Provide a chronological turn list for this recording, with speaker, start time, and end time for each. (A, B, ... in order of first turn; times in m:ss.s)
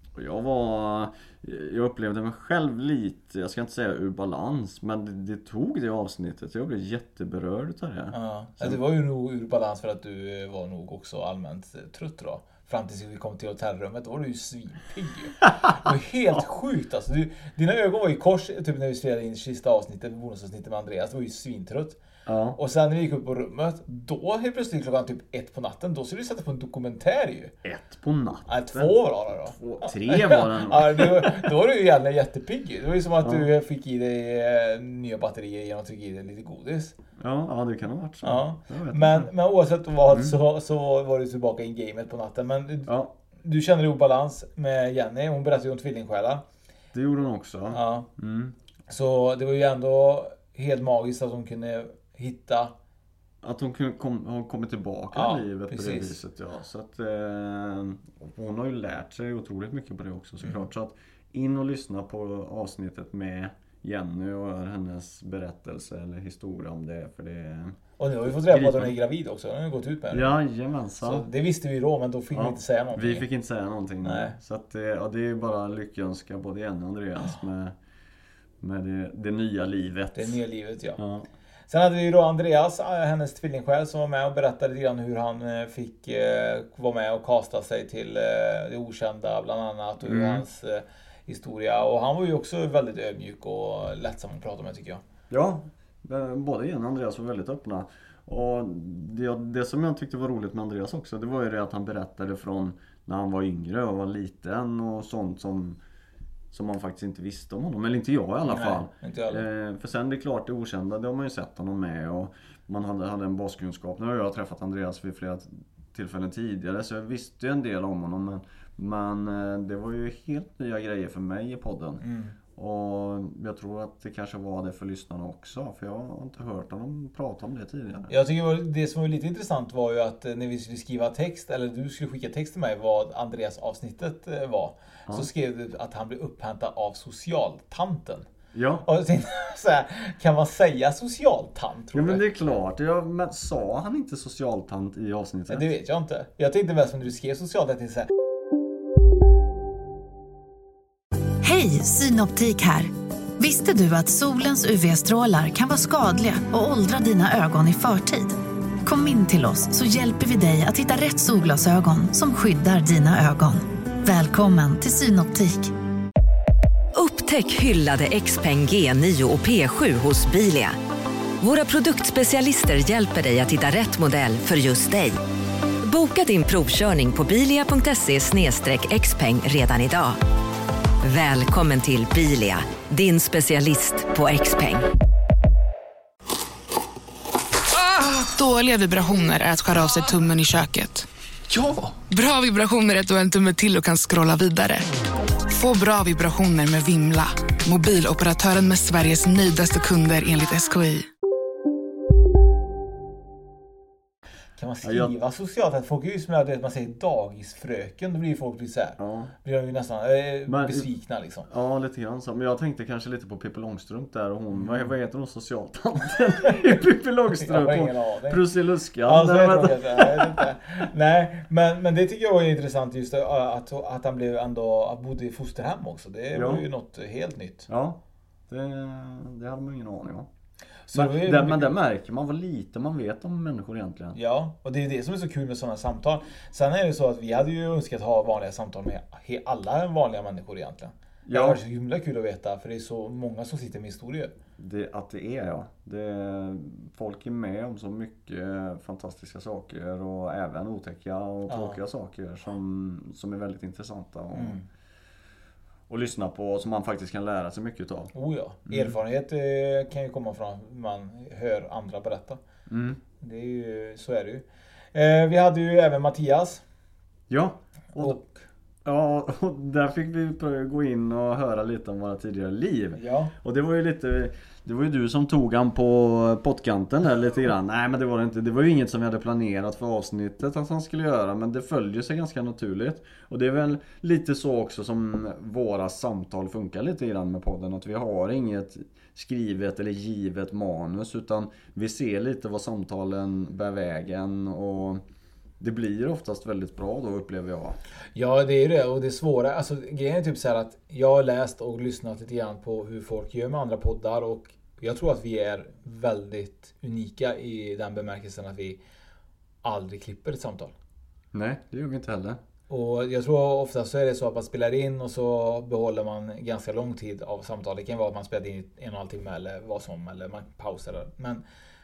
0:00.2-0:08.8 A
0:08.1-0:22.0 B
0:22.3-0:22.6 A
0:22.6-0:27.5 B
0:27.6-0:29.0 A
0:28.5-0:37.0 B
0:29.5-0:31.5 A
0:33.2-0:33.5 A
0:37.2-0:39.3 A
0:38.2-0:46.4 B
0:40.1-0:40.4 A
0:42.9-0:43.1 A
0:46.9-0:48.6 A
0:47.7-0:48.1 B
0:48.9-0:52.7 B
0:53.4-1:07.8 A
0:55.1-0:56.2 B
1:00.4-1:00.7 B
1:08.0-1:10.4 B
1:08.5-1:09.0 A
1:10.1-1:11.3 A
1:11.0-1:13.3 B
1:12.3-1:17.8 A
1:14.0-1:14.4 B
1:18.6-1:20.4 A
1:20.2-1:21.0 B
1:21.0-1:21.3 A
1:21.7-1:35.0 B
1:30.0-1:30.4 A
1:35.3-1:45.8 A
1:46.5-2:02.0 A
1:48.4-1:49.4 B
2:02.0-2:02.4 B
2:02.6-2:08.1 A
2:08.1-2:18.3 B
2:18.5-2:18.9 A
2:18.8-2:22.3 B
2:21.9-2:25.7 A
2:25.5-2:28.1 B
2:31.4-2:45.7 C
2:47.0-2:50.8 D
2:51.4-2:55.2 D
2:55.8-3:00.2 D
3:01.0-3:04.8 D
3:07.8-3:11.1 E
3:12.0-3:14.9 E
3:15.5-3:21.1 E
3:24.6-3:31.5 B
3:24.8-3:25.2 A
3:29.0-3:29.3 A
3:30.5-3:30.9 A
3:31.5-3:40.5 A
3:34.5-3:34.9 B
3:37.3-3:38.4 B
3:39.0-3:47.7 B
3:46.3-3:46.6 A
3:47.7-3:50.3 A
3:50.9-3:51.8 B
3:51.0-3:54.2 A
3:54.2-4:04.3 B
4:01.2-4:01.6 A
4:04.6-4:14.6 A
4:11.5-4:11.8 B
4:14.3-4:14.6 B
4:15.9-4:18.1 A
4:18.1-4:22.4 B
4:18.7-4:18.9 A
4:22.7-4:23.0 A
4:23.2-4:26.6 B
4:27.3-4:28.2 A
4:28.0-4:28.4 B
4:28.8-4:55.0 A
4:33.0-4:33.3 B
4:55.6-4:57.8 A
4:58.2-5:08.8 B
5:09.6-5:10.7 B
5:11.3-5:12.4 A
5:12.7-5:21.4 B